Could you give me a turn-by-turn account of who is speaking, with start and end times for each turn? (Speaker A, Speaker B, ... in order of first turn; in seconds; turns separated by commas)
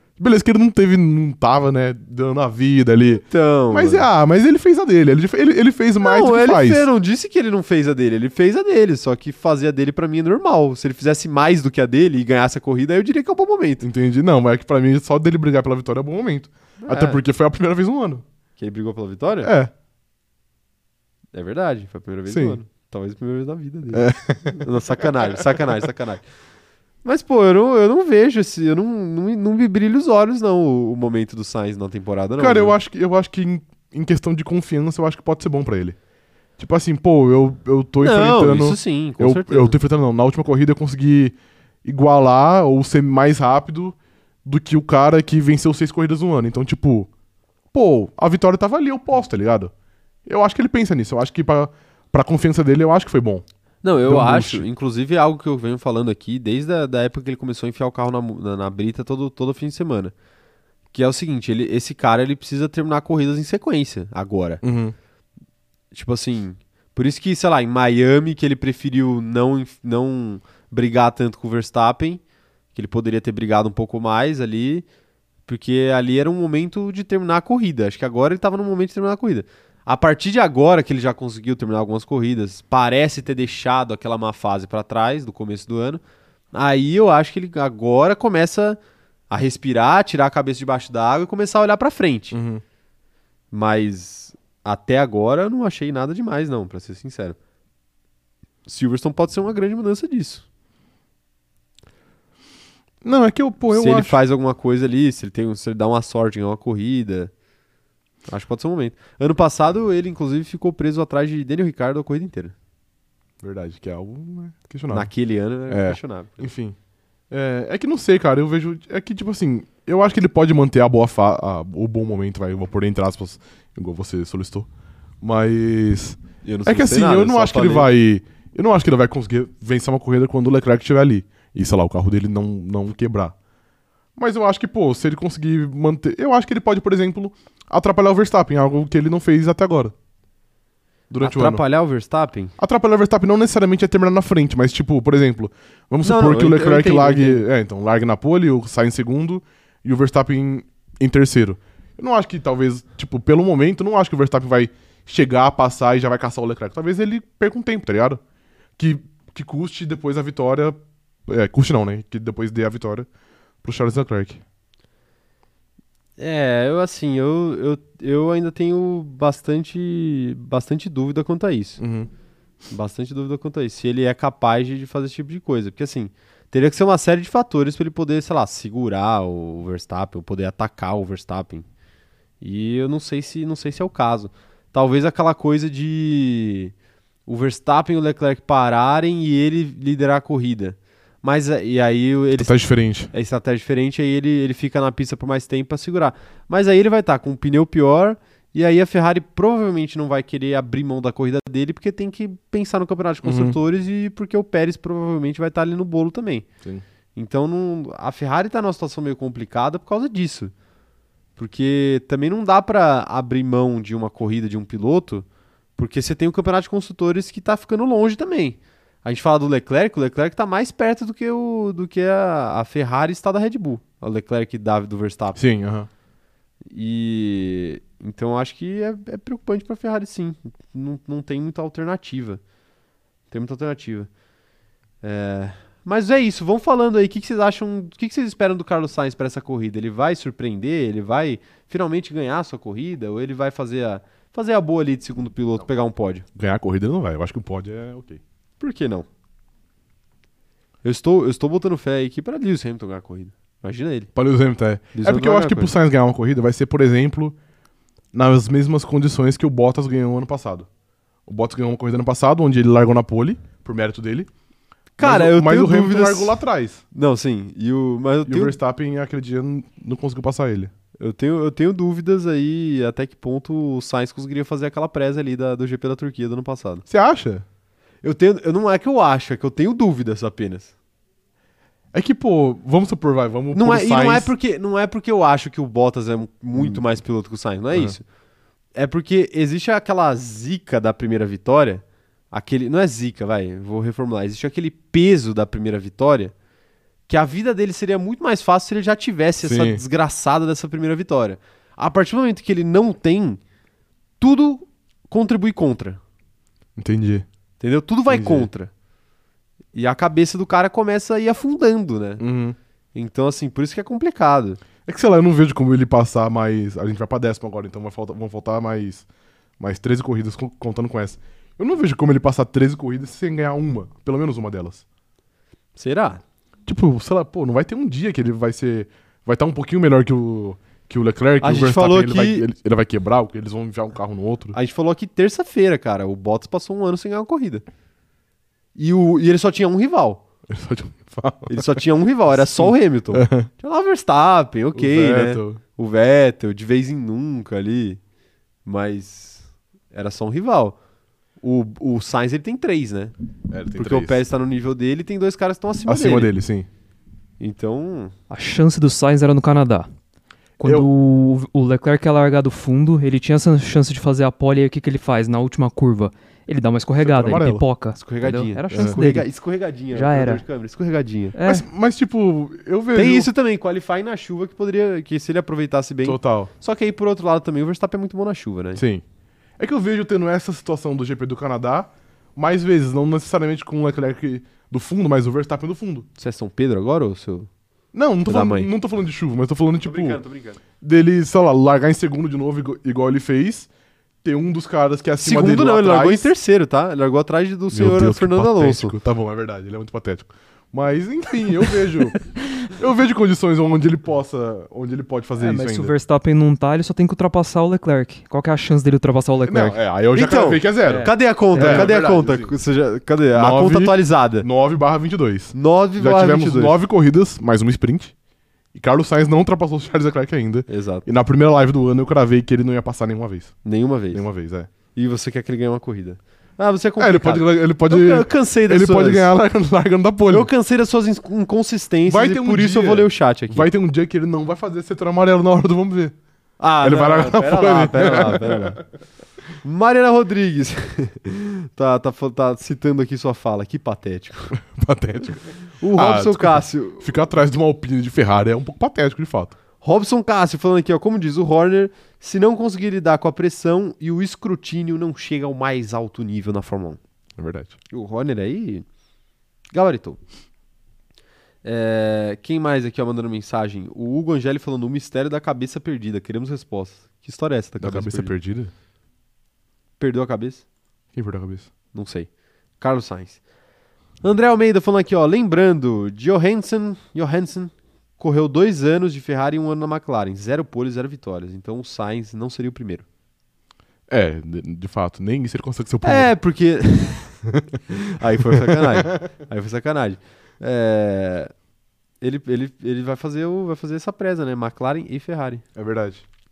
Speaker A: 0.2-6.9, Speaker B: 3.3-4.1, Speaker B: 6.0-13.8, Speaker A: 13.8-18.2, Speaker B: 16.8-17.2, Speaker B: 18.6-19.5, Speaker A: 19.4-19.7, Speaker B: 21.3-26.3, Speaker A: 22.3-22.6, Speaker A: 23.9-24.6, Speaker B: 27.0-32.8, Speaker A: 32.4-36.0, Speaker A: 36.6-47.1, Speaker B: 38.0-39.7, Speaker A: 47.7-49.7, Speaker A: 50.2-53.4, Speaker B: 53.8-60.1, Speaker A: 54.1-54.6, Speaker B: 60.9-64.6, Speaker A: 64.6-64.9, Speaker B: 65.9-72.2, Speaker B: 72.7-74.8, Speaker B: 75.5-86.0, Speaker B: 86.5-88.8, Speaker B: 89.3-92.4, Speaker A: 92.3-92.6, Speaker B: 93.5-97.4, Speaker B: 98.7-100.4, Speaker A: 103.0-104.2, Speaker B: 103.7-107.3, Speaker B: 108.3-112.5, Speaker A: 113.4-115.1, Speaker B: 114.9-116.5, Speaker A: 115.7-116.8, Speaker A: 117.3-124.7, Speaker A: 125.2-133.3, Speaker B: 126.4-127.9, Speaker A: 134.2-139.9, Speaker A: 141.1-141.6, Speaker B: 141.2-142.5, Speaker A: 142.6-158.2, Speaker B: 146.0-147.4, Speaker A: 158.8-163.1, Speaker A: 163.6-164.4, Speaker B: 166.2-171.8, Speaker A: 171.8-172.1, Speaker B: 172.7-181.7, Speaker B: 182.4-186.7, Speaker B: 187.3-206.5, Speaker A: 192.3-193.1, Speaker A: 203.2-203.6, Speaker B: 207.1-210.5, Speaker B: 211.4-215.2, Speaker B: 215.8-225.4, Speaker A: 225.3-225.9, Speaker B: 226.7-232.4, Speaker B: 233.3-234.1, Speaker B: 235.0-246.2, Speaker A: 246.3-248.2, Speaker B: 248.6-249.1, Speaker B: 250.8-254.1, Speaker A: 254.1-257.4, Speaker B: 254.9-255.7, Speaker A: 258.1-260.7, Speaker A: 261.2-264.3, Speaker B: 265.0-266.4, Speaker A: 265.0-266.8, Speaker B: 266.9-268.6, Speaker A: 268.2-270.7, Speaker B: 271.0-276.9, Speaker A: 276.9-277.4, Speaker B: 278.0-280.7, Speaker A: 281.9-284.3, Speaker B: 283.5-288.0, Speaker A: 286.6-286.8, Speaker B: 288.7-296.3, Speaker B: 297.1-303.4, Speaker A: 299.4-299.8, Speaker B: 304.2-306.0, Speaker A: 306.8-307.2, Speaker B: 307.6-308.7, Speaker A: 308.1-308.5, Speaker B: 309.7-312.2, Speaker A: 312.2-312.6, Speaker B: 312.9-314.6, Speaker A: 314.9-319.1, Speaker A: 319.6-324.8, Speaker B: 325.8-326.2, Speaker A: 326.6-334.6, Speaker B: 331.4-332.4, Speaker B: 334.5-337.6, Speaker B: 338.8-340.2, Speaker A: 340.5-341.8, Speaker B: 341.5-348.0, Speaker A: 342.3-343.5, Speaker A: 344.7-345.6, Speaker B: 348.6-350.8, Speaker B: 351.4-353.1, Speaker A: 353.5-354.2, Speaker B: 353.7-356.3, Speaker A: 355.9-356.7, Speaker B: 357.4-358.1, Speaker C: 358.3-359.9, Speaker C: 360.6-369.3, Speaker A: 360.6-360.9, Speaker A: 367.0-367.6, Speaker B: 368.0-371.3, Speaker A: 368.7-369.0, Speaker C: 369.9-370.4, Speaker C: 371.3-371.6, Speaker A: 371.4-373.3, Speaker B: 372.9-378.8, Speaker A: 376.0-376.5, Speaker A: 378.8-379.0, Speaker A: 379.6-386.1, Speaker B: 386.2-387.5, Speaker A: 387.9-390.2, Speaker B: 388.2-388.7, Speaker B: 389.8-390.6, Speaker A: 390.8-393.7, Speaker A: 394.2-396.3, Speaker B: 395.2-398.9, Speaker A: 397.7-405.9, Speaker C: 405.4-409.8, Speaker A: 409.4-412.5, Speaker B: 410.1-414.4, Speaker C: 410.9-411.9, Speaker A: 413.3-418.1, Speaker B: 415.5-416.8, Speaker A: 418.7-423.5, Speaker B: 420.7-421.0, Speaker B: 423.6-424.2, Speaker A: 424.1-424.7, Speaker B: 424.9-429.3, Speaker A: 427.0-430.5, Speaker B: 430.3-433.7, Speaker A: 432.1-436.1, Speaker B: 436.6-438.8, Speaker A: 436.8-438.8, Speaker B: 439.6-444.5, Speaker A: 444.5-449.5, Speaker B: 445.8-447.1, Speaker B: 449.8-457.0, Speaker A: 457.4-457.8, Speaker B: 457.9-458.8, Speaker B: 459.7-460.2, Speaker B: 461.6-468.3, Speaker A: 467.8-468.7, Speaker B: 470.0-470.6, Speaker A: 471.1-471.7, Speaker B: 471.9-473.4, Speaker B: 474.2-483.0, Speaker A: 484.1-486.3, Speaker B: 486.0-491.5, Speaker A: 488.5-489.2, Speaker B: 492.2-495.6, Speaker A: 495.7-496.2